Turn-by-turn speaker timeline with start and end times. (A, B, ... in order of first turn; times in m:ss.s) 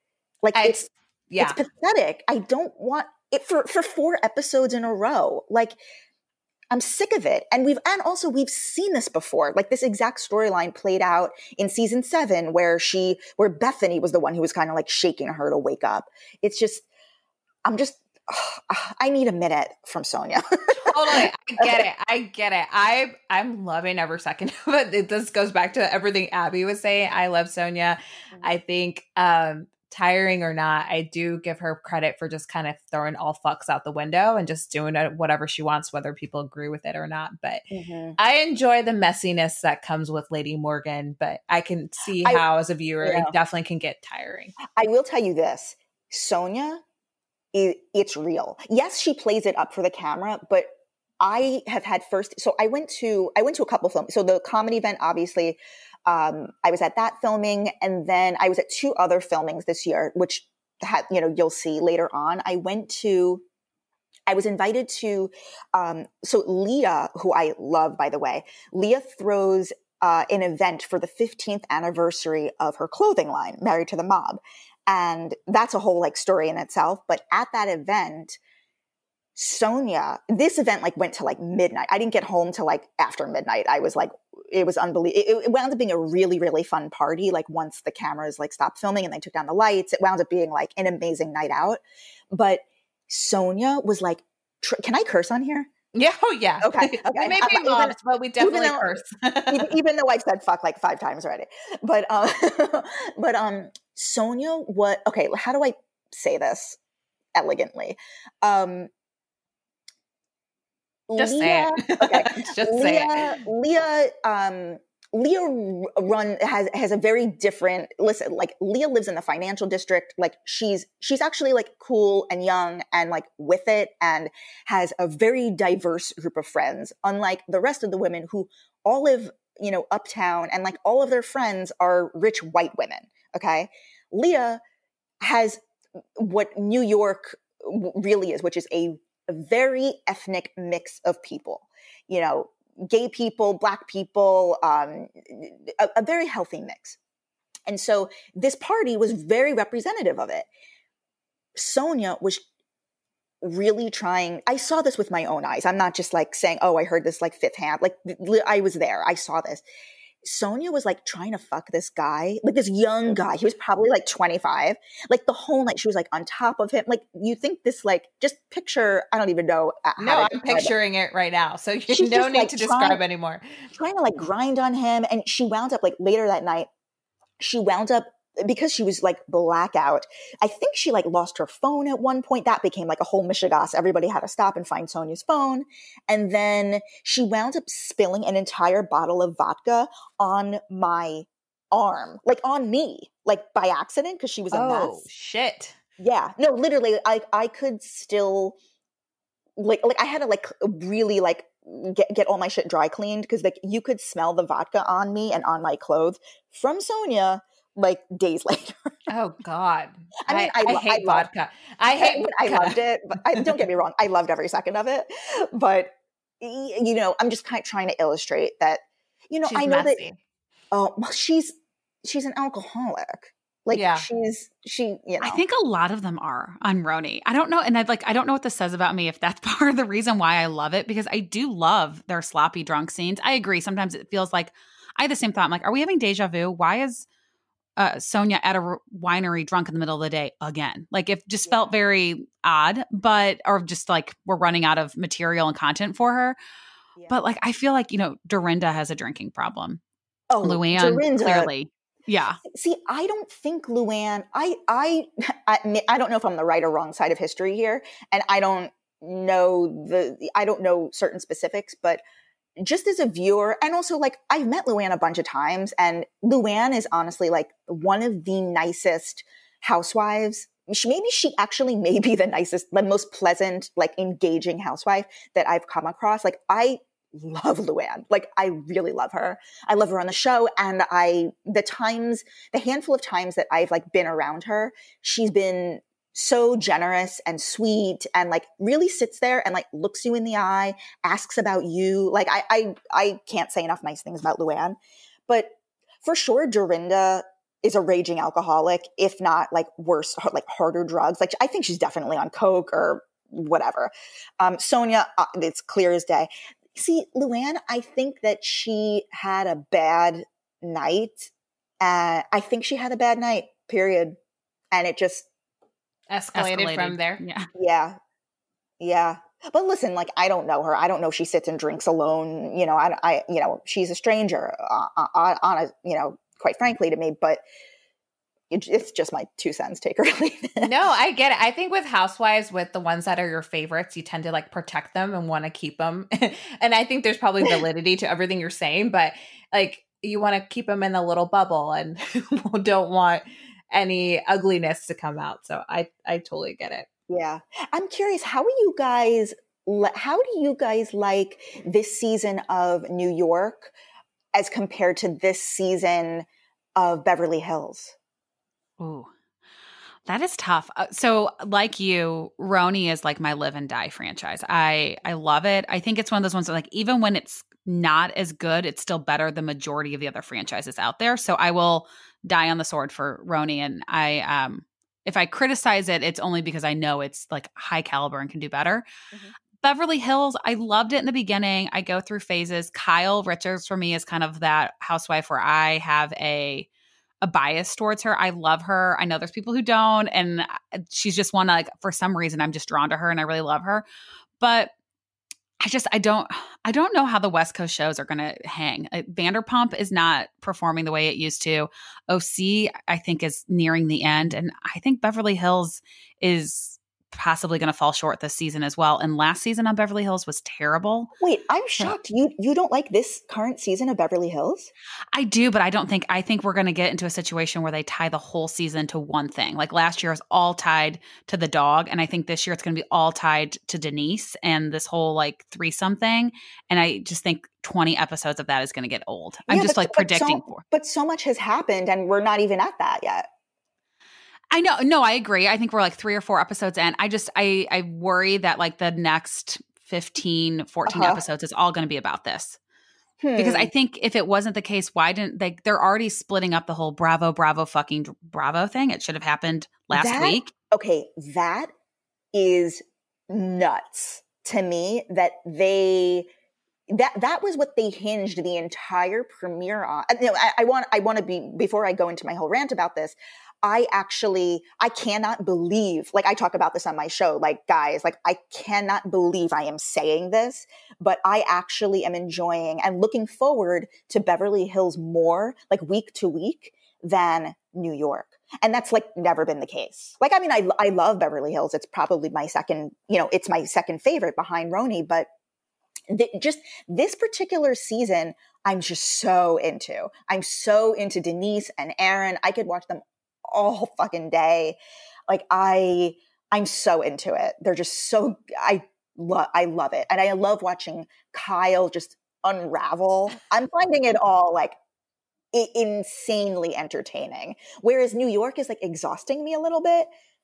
0:00.4-0:05.8 A
0:00.5-0:01.6 B
0:06.7-0:16.8 A
0:17.6-0:21.8 A
0:20.8-0:37.6 B
0:37.7-0:38.2 A
0:38.2-0:44.5 B
0:43.0-0:43.3 A
0:44.8-0:46.8 A
0:47.5-0:50.7 A
0:51.2-1:03.4 A
1:04.3-1:18.4 A
1:19.4-1:31.8 A
1:32.3-1:35.7 A
1:35.9-1:39.7 B
1:36.6-1:46.8 A
1:47.3-1:48.9 A
1:51.1-2:14.6 A
1:51.2-1:53.4 B
2:15.2-2:15.6 A
2:16.2-2:27.0 A
2:27.7-2:30.5 A
2:31.5-2:32.4 A
2:33.4-2:39.6 A
2:40.2-2:50.7 A
2:50.0-2:53.6 B
2:51.9-2:53.0 A
2:53.8-2:56.7 A
2:57.4-3:15.0 A
3:14.5-3:15.7 B
3:16.0-3:18.6 A
3:19.6-3:29.0 A
3:29.1-3:32.8 B
3:30.2-3:31.3 A
3:31.8-3:40.0 A
3:39.5-3:40.2 B
3:40.7-3:41.5 A
3:42.0-3:45.4 A
3:43.7-3:44.1 B
3:45.2-3:57.1 C
3:57.8-4:06.4 C
4:07.1-4:09.8 C
4:10.3-4:11.5 A
4:10.4-4:12.4 C
4:12.4-4:22.0 A
4:22.6-5:14.2 A
5:14.7-5:15.2 A
5:16.1-5:17.2 B
5:16.3-5:17.5 C
5:17.5-5:18.0 A
5:18.8-5:27.4 A
5:28.5-5:30.7 A
5:30.6-5:46.9 B
5:47.1-5:53.7 A
5:54.3-5:58.0 A
5:58.8-5:59.1 C
6:00.0-6:18.8 C
6:19.6-6:26.7 C
6:27.2-6:33.8 C
6:34.4-6:34.7 C
6:35.6-6:51.1 C
6:51.2-6:54.7 A
6:55.1-7:10.6 C
7:09.5-7:13.2 A
7:14.5-7:22.6 C
7:20.9-7:21.2 A
7:23.2-7:23.7 A
7:23.4-7:30.5 C
7:29.9-7:31.7 A
7:32.3-7:36.3 A
7:36.9-8:05.3 A
8:06.1-8:24.8 A
8:25.5-8:30.1 A